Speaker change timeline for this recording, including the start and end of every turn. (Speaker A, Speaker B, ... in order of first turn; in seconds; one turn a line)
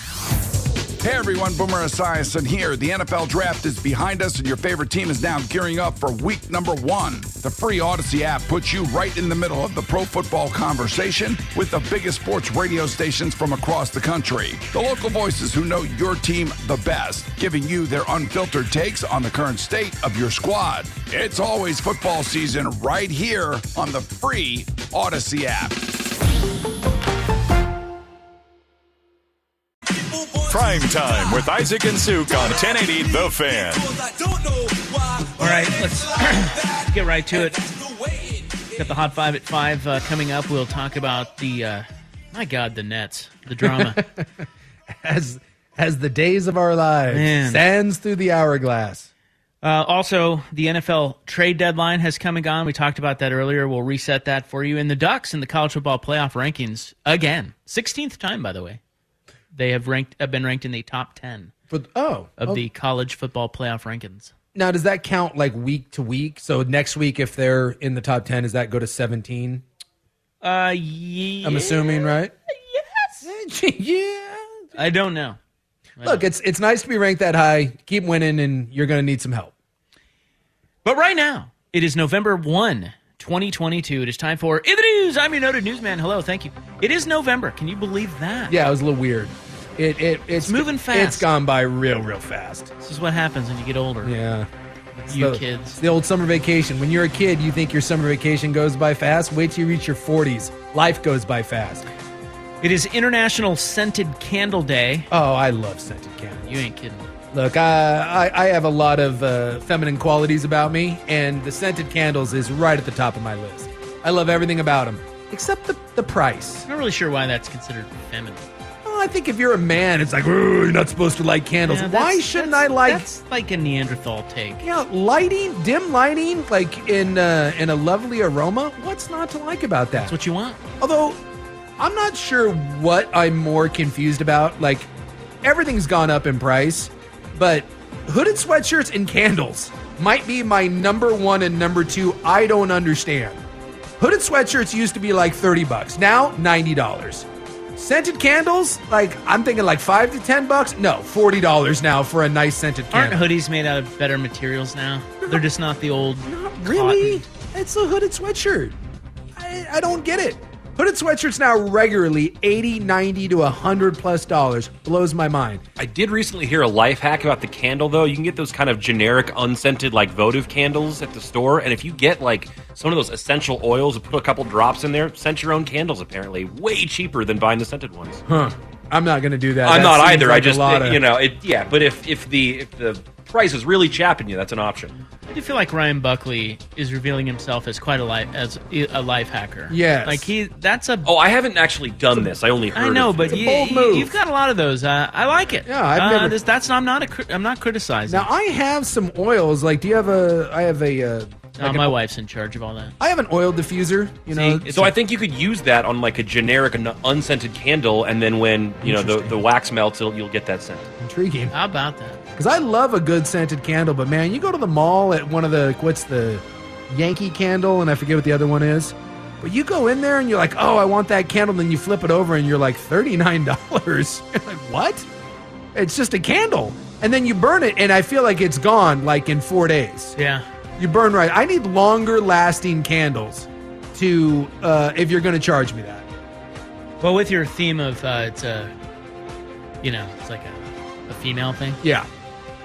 Speaker A: 1.0-25.8
Speaker B: 30.4-34.0
Speaker C: 35.3-37.6
Speaker C: 38.7-44.0
Speaker D: 43.6-44.3
Speaker D: 44.9-49.1
Speaker C: 47.1-47.6
Speaker C: 49.6-58.8
Speaker C: 59.5-61.5
Speaker D: 61.7-62.6
Speaker C: 62.4-64.3
Speaker D: 64.5-69.6
Speaker C: 70.4-72.1
Speaker D: 71.4-72.3
Speaker C: 72.7-73.2
Speaker D: 73.2-74.6
Speaker C: 74.8-75.4
Speaker C: 76.0-76.2
Speaker D: 76.0-79.5
Speaker C: 80.8-88.5
Speaker D: 88.5-92.7
Speaker C: 90.4-91.3
Speaker C: 92.8-94.1
Speaker D: 94.0-94.5
Speaker C: 95.0-95.8
Speaker D: 95.1-101.8
Speaker C: 102.6-105.1
Speaker D: 105.1-106.6
Speaker C: 106.4-107.1
Speaker D: 107.3-116.7
Speaker C: 116.7-118.5
Speaker D: 118.8-123.0
Speaker C: 121.7-124.6
Speaker D: 124.6-130.1
Speaker C: 130.0-130.6
Speaker D: 130.8-131.2
Speaker D: 131.8-134.9
Speaker D: 135.4-143.4
Speaker D: 144.0-153.3
Speaker C: 152.9-157.2
Speaker D: 156.2-158.8
Speaker D: 159.3-165.6
Speaker E: 165.8-178.2
Speaker D: 178.3-181.0
Speaker E: 179.6-184.9
Speaker C: 185.3-191.1
Speaker D: 189.7-190.3
Speaker E: 191.0-193.4
Speaker C: 192.7-198.3
Speaker D: 193.2-194.1
Speaker D: 195.7-196.4
Speaker D: 198.1-202.0
Speaker C: 201.6-202.9
Speaker D: 203.0-204.9
Speaker C: 204.3-204.9
Speaker E: 204.7-210.9
Speaker D: 208.8-209.4
Speaker D: 211.0-211.5
Speaker C: 211.5-212.2
Speaker D: 212.3-225.1
Speaker D: 225.7-230.2
Speaker C: 230.2-230.4
Speaker D: 230.8-236.1
Speaker C: 237.0-238.7
Speaker C: 239.8-241.8
Speaker D: 241.8-242.1